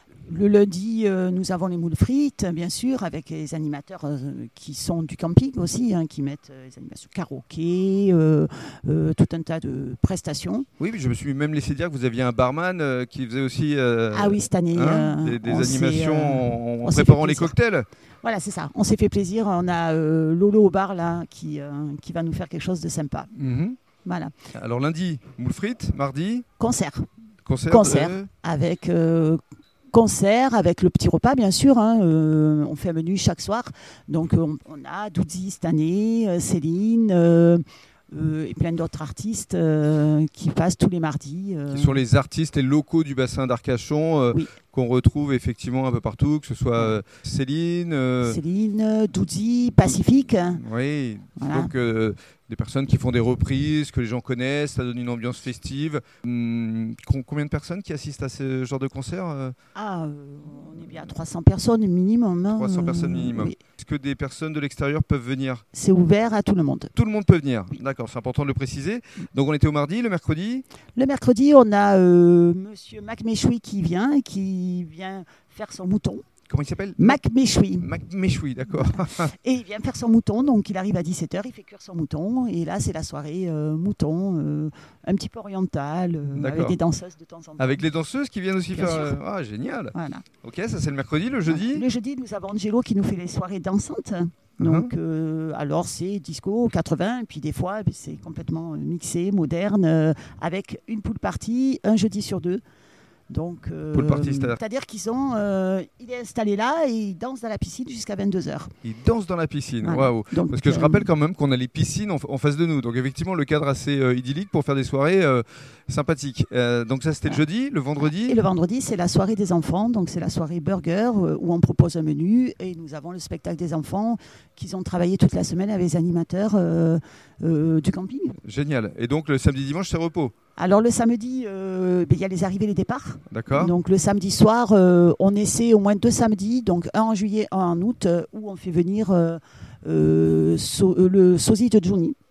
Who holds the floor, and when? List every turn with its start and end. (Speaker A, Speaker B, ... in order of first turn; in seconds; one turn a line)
Speaker A: 0.3-10.7
Speaker B: 10.8-17.9
Speaker A: 14.1-17.5
Speaker A: 18.2-23.3
Speaker B: 23.3-23.8
Speaker A: 24.0-24.3
Speaker B: 24.5-26.4
Speaker A: 26.6-27.1
Speaker B: 27.4-28.3
Speaker A: 27.7-29.4
Speaker A: 29.9-42.0
Speaker B: 41.7-48.4
Speaker A: 48.2-50.6
Speaker B: 50.5-59.5
Speaker A: 51.4-51.7
Speaker A: 59.7-63.6
Speaker B: 62.5-65.6
Speaker A: 65.7-66.9
Speaker B: 66.9-70.6
Speaker A: 71.0-76.2
Speaker B: 76.5-77.2
Speaker A: 77.0-77.9
Speaker B: 77.8-79.3
Speaker A: 79.3-87.8
Speaker B: 86.3-86.8
Speaker B: 87.6-91.8
Speaker A: 88.7-89.1
Speaker A: 89.9-90.2
Speaker A: 91.5-102.6
Speaker B: 94.6-94.9
Speaker A: 103.3-108.7
Speaker B: 103.9-104.6
Speaker B: 108.8-118.3
Speaker A: 109.8-111.1
Speaker A: 118.0-128.4
Speaker B: 128.4-130.3
Speaker A: 130.6-142.2
Speaker B: 133.3-133.7